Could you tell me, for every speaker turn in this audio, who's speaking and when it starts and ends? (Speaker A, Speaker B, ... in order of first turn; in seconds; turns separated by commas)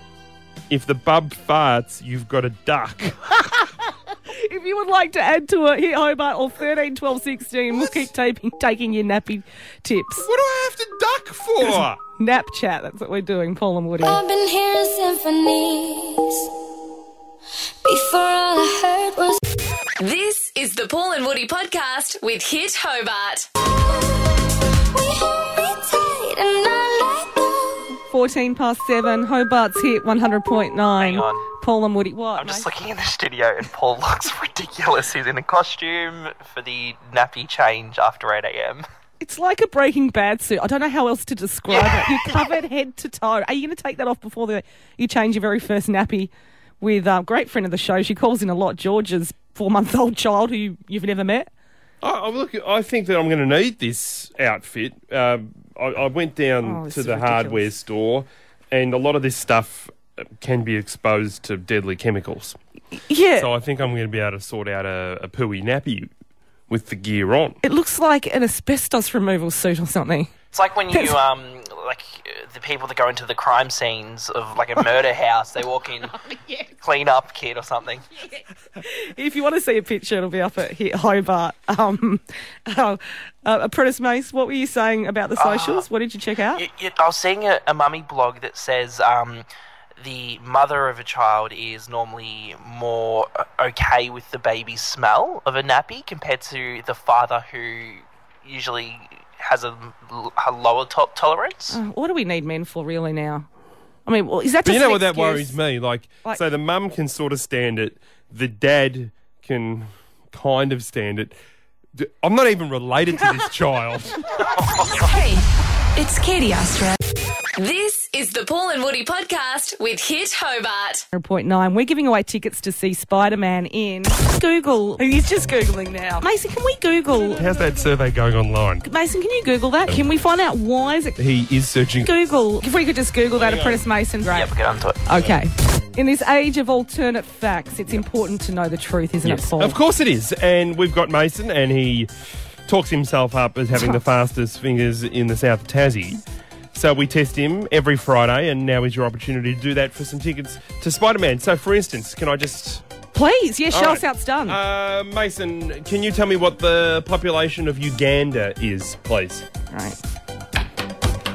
Speaker A: 0.7-3.2, Speaker B: 4.3-10.3, Speaker A: 7.7-8.1, Speaker A: 10.2-12.0, Speaker B: 11.6-14.2, Speaker C: 14.0-16.5, Speaker C: 17.8-19.4, Speaker D: 20.0-23.5, Speaker C: 25.0-27.8, Speaker B: 28.1-32.7, Speaker E: 31.0-31.4, Speaker E: 32.4-38.8, Speaker B: 39.2-51.5, Speaker E: 41.7-42.3, Speaker A: 52.0-62.6, Speaker B: 56.6-57.7, Speaker B: 63.1-63.5, Speaker A: 63.4-66.1, Speaker A: 66.7-67.6, Speaker B: 67.6-70.3, Speaker E: 70.5-76.1, Speaker B: 76.3-76.6, Speaker E: 76.8-78.0, Speaker B: 78.8-86.6, Speaker E: 85.4-85.8, Speaker E: 86.5-89.5, Speaker E: 90.0-101.8, Speaker B: 101.7-103.5, Speaker B: 104.0-105.6, Speaker A: 104.6-111.3, Speaker A: 112.0-114.4, Speaker D: 115.0-115.4, Speaker D: 117.6-121.0, Speaker B: 121.1-127.5, Speaker A: 127.3-128.8, Speaker B: 128.8-131.2, Speaker A: 131.2-132.1, Speaker B: 132.0-134.5, Speaker A: 133.3-133.8, Speaker E: 134.3-135.0, Speaker B: 135.0-139.8, Speaker A: 139.2-142.1, Speaker A: 142.7-146.2, Speaker A: 146.7-152.8, Speaker B: 153.1-154.6, Speaker A: 153.7-159.4, Speaker B: 159.7-160.0